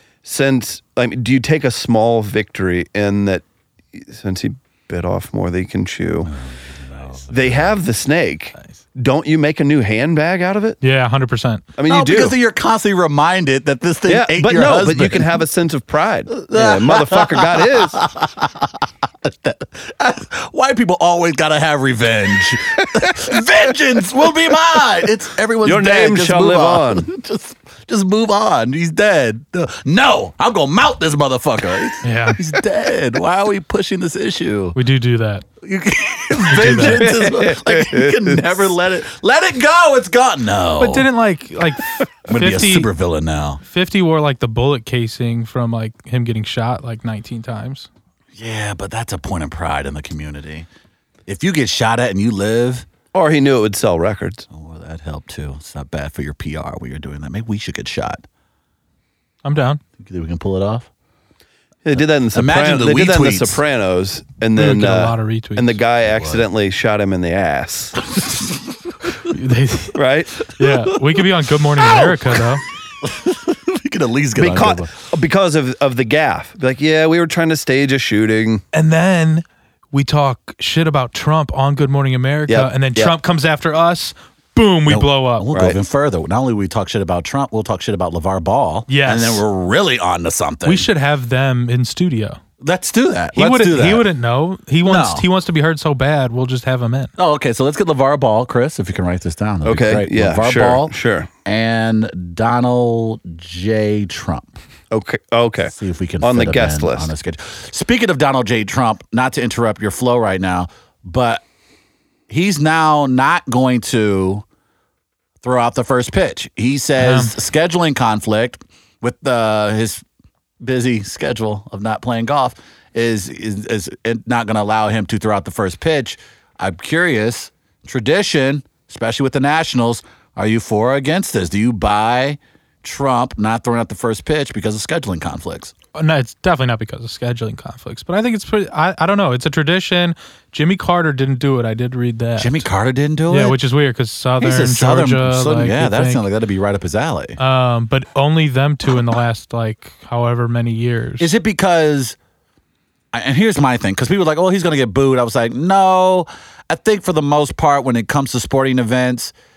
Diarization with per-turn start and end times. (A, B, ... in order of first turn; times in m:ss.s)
0:00.2-0:06.3 A
0:06.2-0:07.7 B
0:07.3-0:10.8 A
0:10.8-0:11.6 C
0:11.8-0:12.4 A
0:11.9-0:15.3 B
0:14.1-0:18.0 A
0:16.4-0:34.8 B
0:25.6-0:27.1 A
0:32.0-0:32.4 C
0:34.7-0:35.4 C
0:35.6-0:41.1 B
0:36.4-0:37.1 C
0:36.8-0:38.5 A
0:40.8-0:42.9 C
0:42.2-0:43.6 B
0:43.6-0:47.9 C
0:48.4-0:50.7 B
0:51.3-0:52.8 B
0:53.1-0:54.5 A
0:54.5-0:58.2 B
0:59.4-0:59.8 C
1:00.0-1:00.9 B
1:01.8-1:08.0 A
1:02.3-1:03.6 B
1:04.6-1:05.8 C
1:06.0-1:06.4 B
1:08.1-1:09.2 B
1:09.2-1:10.0 C
1:09.9-1:10.3 A
1:10.5-1:12.6 C
1:10.6-1:11.2 B
1:11.8-1:12.5 B
1:13.0-1:14.9 B
1:14.4-1:18.6 A
1:18.7-1:25.5 C
1:22.5-1:23.1 A
1:24.9-1:30.9 B
1:25.5-1:25.8 A
1:28.9-1:29.4 C
1:30.6-1:32.4 C
1:32.6-1:34.1 B
1:33.3-1:37.1 C
1:34.8-1:35.3 B
1:37.2-1:40.9 B
1:39.6-1:41.3 A
1:41.4-1:44.6 B
1:44.9-1:47.1 A
1:45.7-1:51.4 B
1:52.3-1:54.4 B
1:55.4-2:00.0 B
1:57.0-1:57.3 C
2:00.6-2:15.7 B
2:15.9-2:22.6 C
2:22.4-2:23.6 B
2:23.3-2:26.2 C
2:24.4-2:27.4 B
2:27.4-2:31.3 C
2:31.2-2:32.2 B
2:33.1-2:39.3 B